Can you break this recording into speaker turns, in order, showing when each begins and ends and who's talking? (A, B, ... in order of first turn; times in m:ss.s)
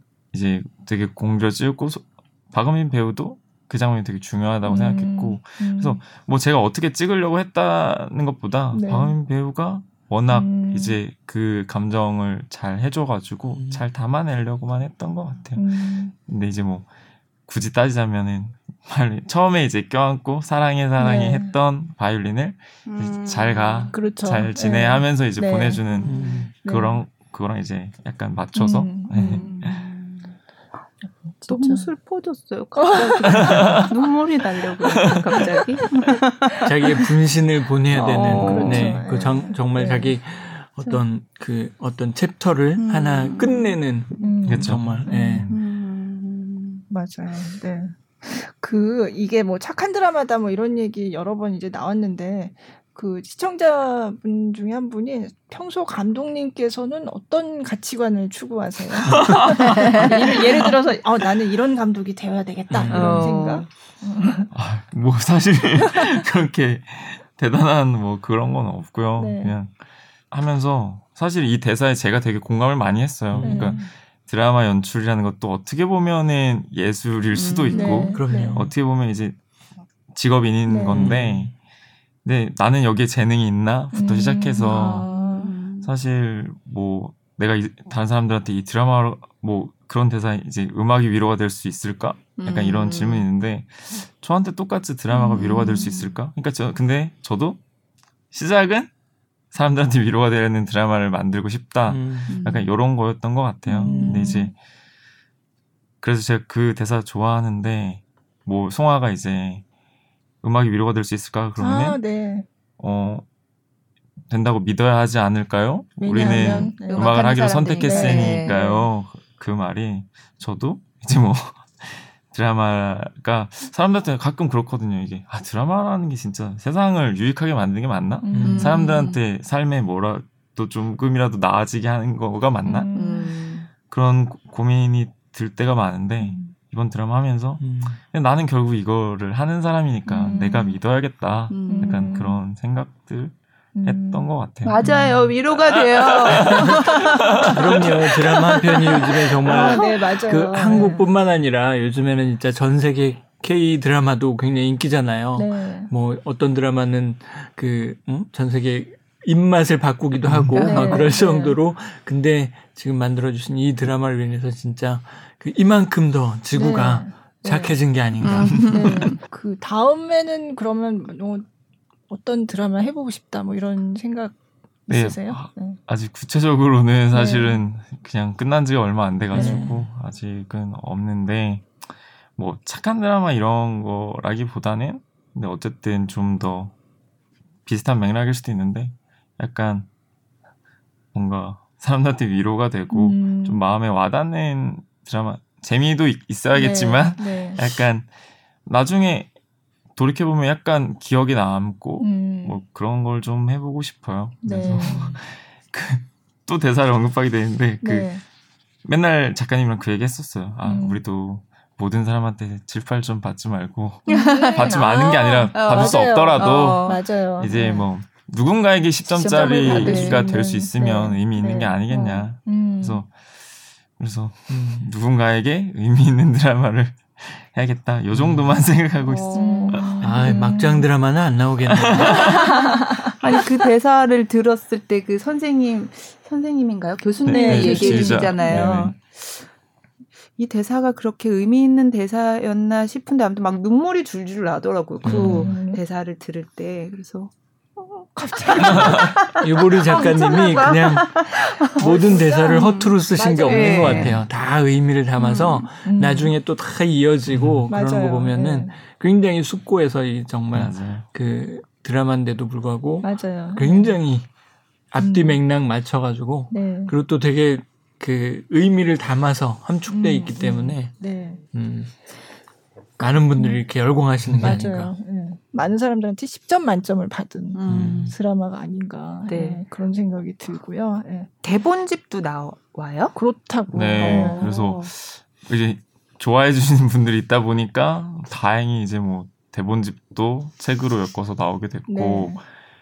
0:00.3-0:16.9 A
0:04.6-0:06.0 B
0:08.7-0:09.2 B
0:10.3-0:11.0 B
0:13.6-0:13.8 C
0:15.6-0:16.1 B
0:17.5-0:29.8 A
0:21.0-0:21.6 B
0:22.9-0:23.9 D
0:23.9-0:27.0 B
0:26.0-0:26.5 C
0:28.6-0:29.5 B
0:29.2-0:30.4 D
0:31.3-0:31.9 B
0:31.5-0:37.1 D
0:32.8-0:33.8 B
0:33.6-0:33.8 A
0:34.9-0:35.2 A
0:36.6-0:45.6 C
0:37.9-0:39.0 D
0:37.9-0:40.2 B
0:38.3-0:38.9 A
0:42.8-0:44.3 D
0:44.2-0:45.5 B
0:44.4-0:45.0 A
0:45.5-0:46.8 D
0:46.9-1:04.5 B
0:59.1-1:00.2 A
0:59.7-1:00.1 D
1:02.7-1:03.3 C
1:02.9-1:03.7 D
1:04.5-1:09.7 A
1:09.2-1:09.6 B
1:10.3-1:19.4 A
1:13.3-1:13.8 C
1:13.4-1:13.9 B
1:17.3-1:18.1 D
1:17.7-1:18.6 B
1:18.1-1:18.7 C
1:20.1-1:21.5 A
1:20.7-1:21.1 B
1:20.9-1:21.5 C
1:22.2-1:25.1 A
1:23.9-1:25.6 B
1:24.6-1:25.9 D
1:25.8-1:37.6 A
1:32.4-1:33.3 D
1:35.1-1:36.2 D
1:38.3-1:38.9 A
1:39.5-1:44.5 A
1:41.9-1:42.3 C
1:42.3-1:42.7 D
1:43.7-1:44.5 D
1:43.7-1:44.5 B
1:46.0-1:49.6 A
1:50.4-1:52.0 A
1:51.6-1:52.4 B
1:52.8-1:53.2 A
1:54.3-2:12.9 A
1:56.0-1:58.7 B
1:56.1-1:58.9 D
2:08.2-2:08.9 B
2:08.3-2:08.8 C
2:08.5-2:09.2 D
2:12.6-2:13.3 B
2:12.7-2:13.7 D
2:13.9-2:24.8 A
2:17.6-2:18.0 C
2:20.1-2:20.8 D
2:20.2-2:20.7 B
2:21.5-2:22.1 D
2:21.7-2:22.4 B
2:23.8-2:24.3 B
2:24.6-2:27.9 D
2:24.8-2:25.2 B
2:25.5-2:27.9 A
2:27.4-2:48.9 C
2:29.4-2:30.0 D
2:29.4-2:31.1 B
2:35.4-2:35.9 B
2:40.5-2:41.1 D
2:40.6-2:41.6 B
2:46.5-2:47.8 B
2:48.2-2:49.2 D
2:48.5-2:51.5 B
2:52.1-2:55.8 B
2:54.9-3:01.8 A
2:57.1-2:57.6 B
2:59.3-2:59.9 C
2:59.3-2:59.7 B
3:02.4-3:06.7 A
3:07.7-3:09.9 A
3:11.1-3:18.1 A
3:12.9-3:13.6 B
3:16.5-3:17.6 B
3:18.7-3:19.3 A
3:20.0-3:28.1 A
3:22.0-3:22.6 B
3:24.4-3:25.1 B
3:24.5-3:25.2 C
3:27.8-3:28.2 B
3:28.8-3:43.1 A
3:30.6-3:31.0 B
3:34.1-3:37.8 B
3:34.1-3:37.0 D
3:39.1-3:40.4 D
3:39.1-3:43.0 B
3:44.0-3:50.1 A
3:44.5-3:44.9 C
3:48.1-3:48.5 C
3:49.0-3:50.4 D
3:49.4-3:50.9 B
3:50.0-3:52.3 C
3:51.7-3:52.4 A
3:52.0-3:59.5 D
3:57.2-3:58.9 A
3:57.2-3:58.9 B
4:00.4-4:07.3 D
4:05.0-4:05.6 C
4:05.1-4:05.8 B
4:07.8-4:09.2 B
4:08.5-4:12.9 D
4:09.2-4:24.3 C
4:11.8-4:14.2 B
4:13.4-4:14.2 D
4:15.2-4:15.7 D
4:15.8-4:16.3 B
4:17.3-4:17.6 A
4:17.7-4:18.7 B
4:20.5-4:21.1 A
4:23.0-4:24.0 B
4:24.9-4:31.0 C
4:25.0-4:25.4 B
4:26.5-4:27.0 B
4:29.9-4:31.4 B
4:31.5-4:31.9 C
4:33.0-4:34.9 C
4:33.0-4:33.6 B
4:34.4-4:41.3 B
4:37.5-4:38.2 D
4:37.7-4:38.2 C
4:39.3-4:39.6 D
4:41.4-4:43.2 D
4:43.2-4:44.5 B
4:43.7-4:52.4 A
4:44.0-4:44.9 D
4:51.9-4:52.4 B